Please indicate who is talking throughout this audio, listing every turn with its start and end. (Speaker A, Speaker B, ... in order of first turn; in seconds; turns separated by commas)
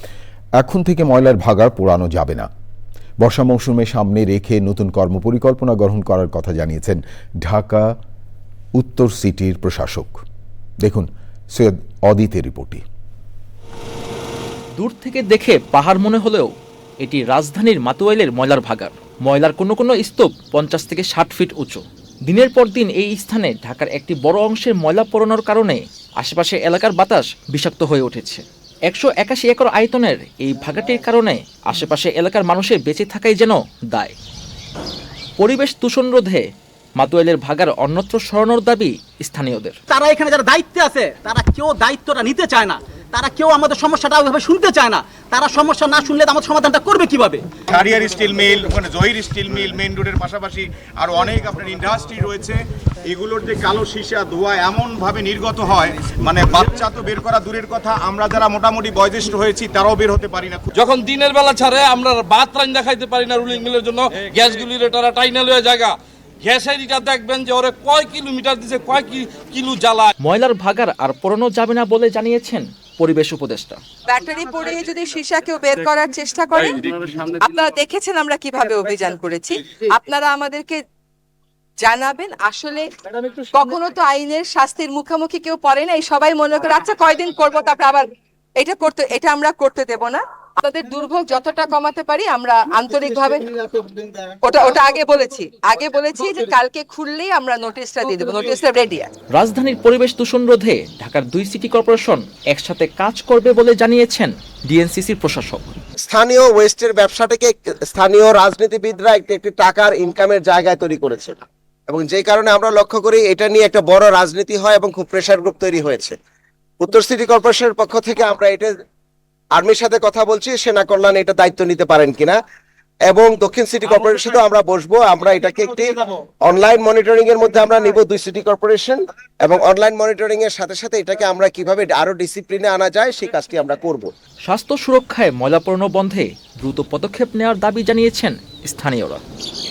Speaker A: 0.6-2.5, Speaker A: 3.2-7.9, Speaker A: 8.8-10.2, Speaker A: 10.8-12.8, Speaker B: 14.8-16.5, Speaker B: 17.0-34.1, Speaker B: 35.4-36.4, Speaker B: 37.0-39.8, Speaker C: 39.9-47.5, Speaker D: 47.7-60.7, Speaker E: 60.7-70.1, Speaker B: 70.2-73.8, Speaker F: 74.1-76.9, Speaker E: 76.6-77.4, Speaker F: 77.4-80.8, Speaker F: 81.8-82.9, Speaker F: 83.5-93.7, Speaker F: 94.4-99.1, Speaker B: 99.3-105.7, Speaker G: 106.0-116.2, Speaker G: 116.8-118.7, Speaker G: 119.5-122.4, Speaker G: 123.1-134.1, Speaker B: 134.5-139.2